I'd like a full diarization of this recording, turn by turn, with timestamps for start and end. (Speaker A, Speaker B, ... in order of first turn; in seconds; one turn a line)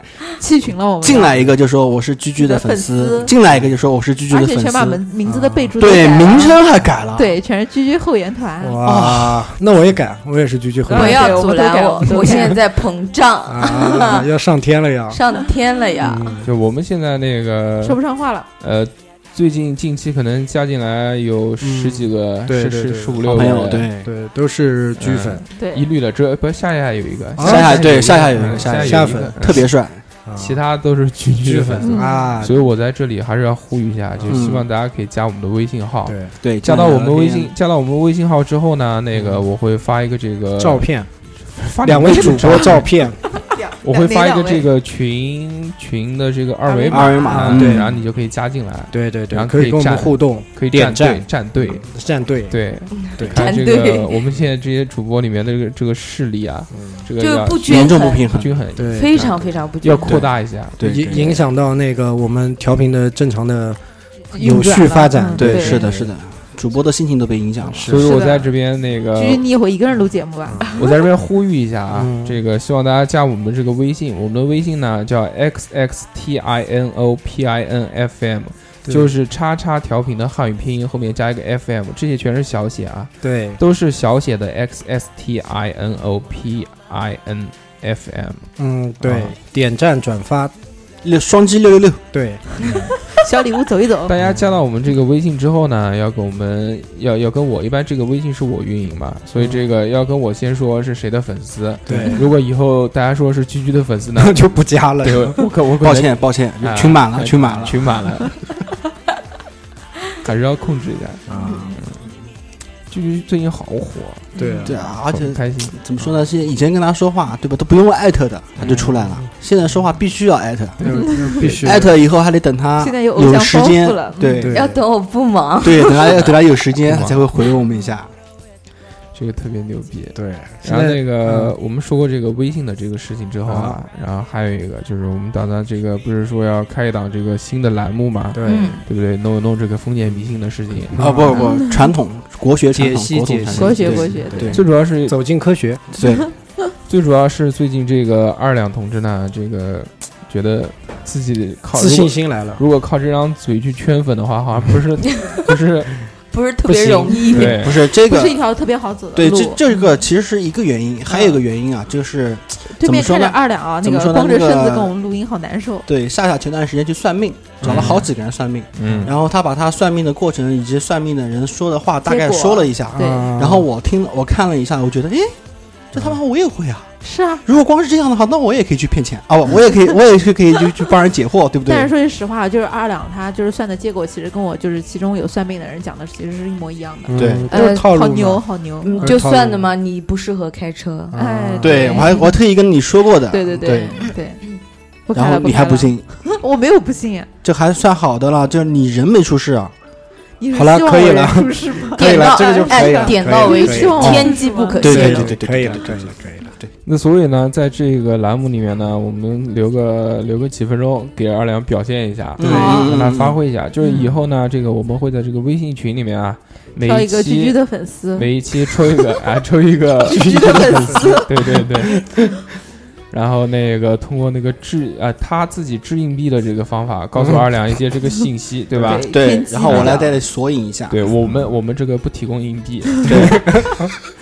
Speaker A: 0.2-1.4
Speaker B: 1.0-5.0
Speaker A: 2.4-3.3
Speaker A: 4.3-6.6
Speaker C: 5.2-5.7
Speaker B: 5.8-7.3
Speaker A: 7.2-8.8
Speaker C: 8.6-11.5
Speaker B: 8.8-9.6
Speaker A: 10.9-12.6
Speaker D: 10.9-14.3
Speaker C: 13.5-15.2
Speaker D: 15.1-16.4
Speaker C: 16.0-16.5
Speaker E: 16.4-18.0
Speaker A: 17.8-18.5
Speaker E: 18.6-23.9
Speaker C: 21.6-25.4
Speaker B: 23.3-24.1
Speaker E: 25.0-29.7
Speaker A: 25.6-25.8
Speaker C: 27.4-29.6
Speaker B: 27.4-30.0
Speaker C: 30.3-30.6
Speaker E: 30.4-40.9
Speaker C: 31.4-32.6
Speaker A: 31.8-32.4
Speaker C: 34.2-34.6
Speaker B: 34.3-34.6
Speaker C: 36.1-36.3
Speaker B: 36.4-37.5
Speaker C: 39.1-39.5
Speaker C: 40.6-41.1
Speaker E: 41.5-42.9
Speaker C: 41.8-43.2
Speaker A: 43.4-44.7
Speaker E: 43.8-51.9
Speaker A: 46.7-47.5
Speaker B: 46.9-47.9
Speaker C: 47.2-48.0
Speaker C: 48.9-52.6
Speaker E: 52.5-61.2
Speaker D: 52.9-54.1
Speaker C: 53.2-53.5
Speaker C: 56.7-57.0
Speaker D: 57.2-58.3
Speaker B: 57.6-58.6
Speaker C: 58.8-59.4
Speaker D: 58.9-60.2
Speaker B: 60.1-61.5
Speaker C: 60.8-63.8
Speaker C: 64.3-66.1
Speaker A: 64.3-65.8
Speaker B: 65.4-68.0
Speaker C: 67.7-68.1
Speaker E: 67.9-69.4
Speaker A: 68.0-68.5
Speaker A: 69.2-70.9
Speaker C: 70.5-70.9
Speaker E: 70.8-88.5
Speaker C: 71.9-72.4
Speaker C: 78.9-79.1
Speaker C: 83.2-83.6
Speaker C: 88.6-90.5
Speaker E: 89.0-89.3
Speaker B: 91.0-92.0
Speaker C: 92.1-92.4
Speaker A: 93.1-94.1
Speaker E: 94.1-104.5
Speaker C: 94.2-94.6
Speaker C: 99.4-99.6
Speaker C: 101.9-102.3
Speaker C: 104.2-105.5
Speaker E: 105.0-108.5
Speaker B: 105.8-107.8
Speaker C: 107.4-107.7
Speaker E: 110.2-111.9
Speaker C: 111.3-111.8
Speaker E: 112.9-115.7
Speaker C: 114.4-114.8
Speaker A: 114.4-114.6
Speaker B: 114.6-120.9
Speaker C: 118.6-119.3
Speaker E: 120.8-121.9
Speaker C: 120.8-122.0
Speaker B: 121.6-124.6
Speaker A: 122.8-124.5
Speaker C: 124.4-124.8
Speaker D: 124.5-126.3
Speaker B: 125.6-128.1
Speaker E: 126.9-127.2
Speaker E: 129.1-141.0
Speaker C: 130.2-131.6
Speaker C: 133.4-133.8
Speaker C: 138.3-138.8
Speaker D: 138.4-138.8
Speaker C: 140.9-141.5
Speaker B: 141.0-144.6
Speaker A: 141.3-141.8
Speaker C: 142.7-145.8
Speaker A: 143.5-144.6
Speaker E: 144.5-145.2
Speaker B: 145.9-146.3
Speaker E: 146.9-156.1
Speaker C: 151.8-152.6
Speaker D: 156.3-157.7
Speaker C: 156.7-157.5
Speaker E: 157.3-157.8
Speaker B: 157.5-158.4
Speaker A: 157.9-159.7
Speaker B: 159.1-164.9
Speaker A: 161.1-161.4
Speaker A: 162.7-165.9
Speaker B: 165.9-175.4
Speaker C: 167.6-168.0
Speaker E: 167.6-168.1
Speaker E: 168.8-169.1
Speaker C: 168.8-169.1
Speaker A: 172.1-173.3
Speaker C: 172.9-173.7
Speaker B: 175.9-176.9
Speaker A: 177.0-177.4
Speaker B: 177.4-181.9
Speaker A: 181.7-189.1
Speaker C: 187.1-188.4
Speaker B: 187.2-187.5
Speaker D: 187.5-188.0
Speaker D: 188.8-191.2
Speaker C: 189.0-189.7
Speaker C: 191.1-192.1
Speaker A: 191.2-192.3
Speaker B: 191.6-194.1
Speaker A: 193.3-194.4
Speaker A: 195.1-197.3
Speaker B: 195.1-196.1
Speaker B: 197.4-199.7
Speaker A: 200.4-205.2
Speaker C: 200.5-206.5
Speaker D: 202.0-205.4
Speaker B: 204.0-206.7
Speaker E: 206.9-217.6
Speaker B: 212.4-213.4
Speaker C: 212.4-212.9
Speaker A: 213.8-214.1
Speaker A: 216.8-218.3
Speaker E: 218.2-222.0
Speaker A: 220.1-221.3
Speaker C: 220.1-222.2
Speaker E: 223.1-229.1
Speaker C: 227.2-227.4
Speaker C: 228.8-229.0
Speaker A: 228.8-230.2
Speaker B: 229.1-231.0
Speaker E: 229.7-230.0
Speaker E: 230.9-233.6
Speaker B: 233.1-233.4
Speaker C: 233.1-233.9